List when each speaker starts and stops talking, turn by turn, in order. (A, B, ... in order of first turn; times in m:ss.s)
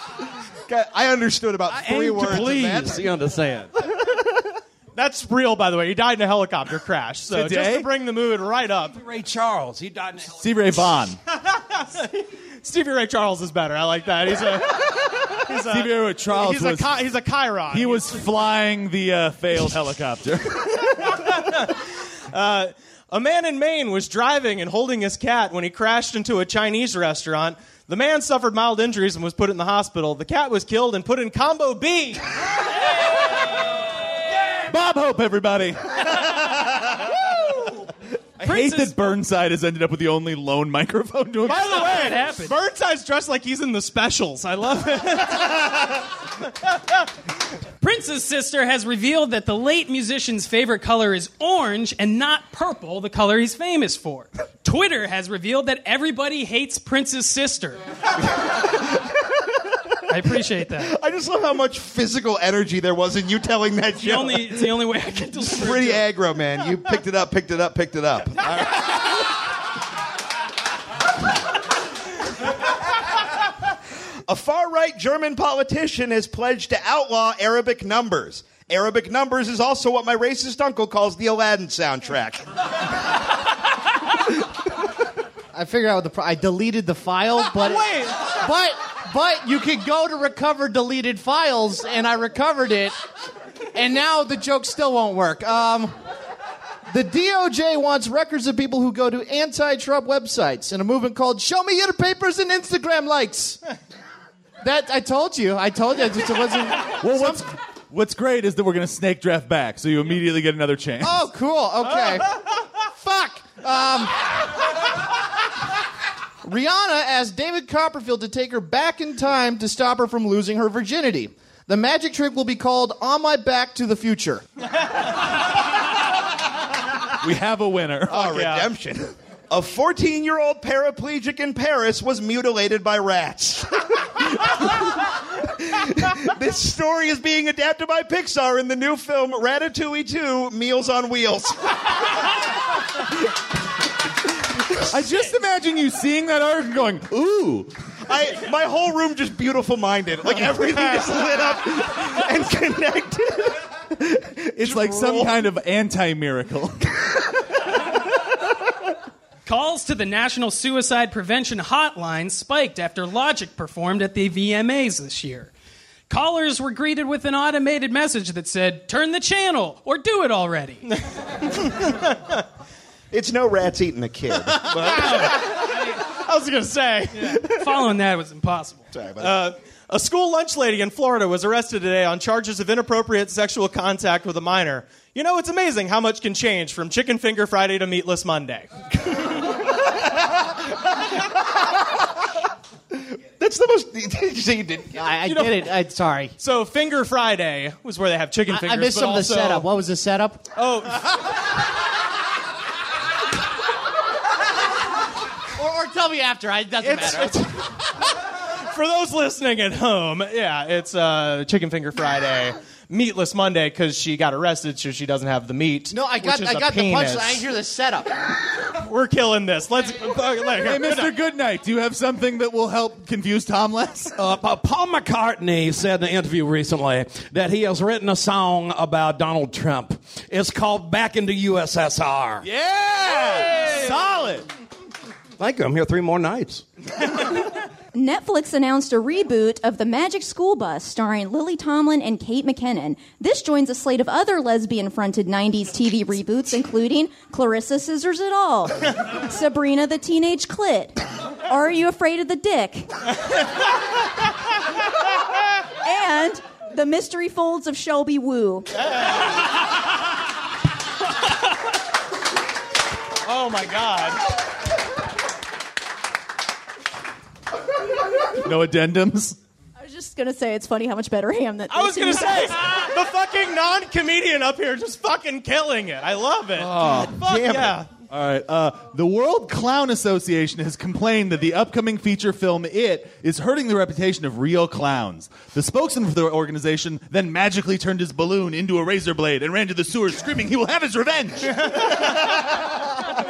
0:00.7-0:03.0 A
0:01.7-0:03.7 B
0:04.9-0:09.0 C
0:07.3-0:07.9 D
0:08.9-0:10.4 B
0:10.4-0:11.2 D
0:11.4-0:18.2 C
0:15.5-0:17.0 D
0:17.7-0:21.2 D
0:21.1-0:32.2 C
0:34.7-0:37.1 D
0:38.4-0:42.2 D
0:38.4-0:39.0 E
0:41.5-0:42.6 E
0:41.5-0:46.0 C
0:47.8-0:57.8 E
1:00.1-1:00.9 E
1:00.8-1:04.7 A
1:04.0-1:06.0 E
1:05.5-1:09.2 A
1:14.3-1:22.4 A
1:25.5-1:32.9 F
1:27.6-1:28.1 C
1:33.7-1:35.9 F
1:36.9-1:43.6 F
1:44.6-1:47.4 F
1:47.0-1:51.2 D
1:51.0-1:54.3 F
1:56.4-2:04.4 F
2:07.2-2:08.2 D
2:08.1-2:22.0 A
2:08.1-2:08.7 C
2:24.9-2:27.7 D
2:28.1-2:35.4 A
2:34.6-2:36.8 D
2:39.4-2:45.5 E
2:46.1-2:50.8 E
2:51.6-2:52.4 C
2:53.1-2:55.4 A
2:54.8-2:57.6 C
2:57.2-2:58.9 E
2:58.9-2:59.4 A
2:59.2-3:08.7 C
3:13.0-3:15.0 A
3:14.9-3:16.3 F
3:15.2-3:15.7 C
3:16.4-3:19.7 C
3:18.5-3:20.4 F
3:20.6-3:21.2 C
3:25.6-3:27.5 F
3:26.8-3:27.3 C
3:28.6-3:37.4 C
3:35.9-3:38.1 F
3:38.7-3:41.1 C
3:40.6-3:44.2 D
3:44.2-3:52.4 B
3:52.4-3:54.5 D
3:55.4-3:56.6 B
3:57.9-4:12.9 G
4:15.8-4:18.7 G
4:23.2-4:24.2 C
4:28.4-4:29.4 D
4:29.8-4:32.8 G
4:31.7-4:37.9 C
4:36.6-4:37.2 D
4:36.7-4:37.8 A
4:38.1-4:52.0 D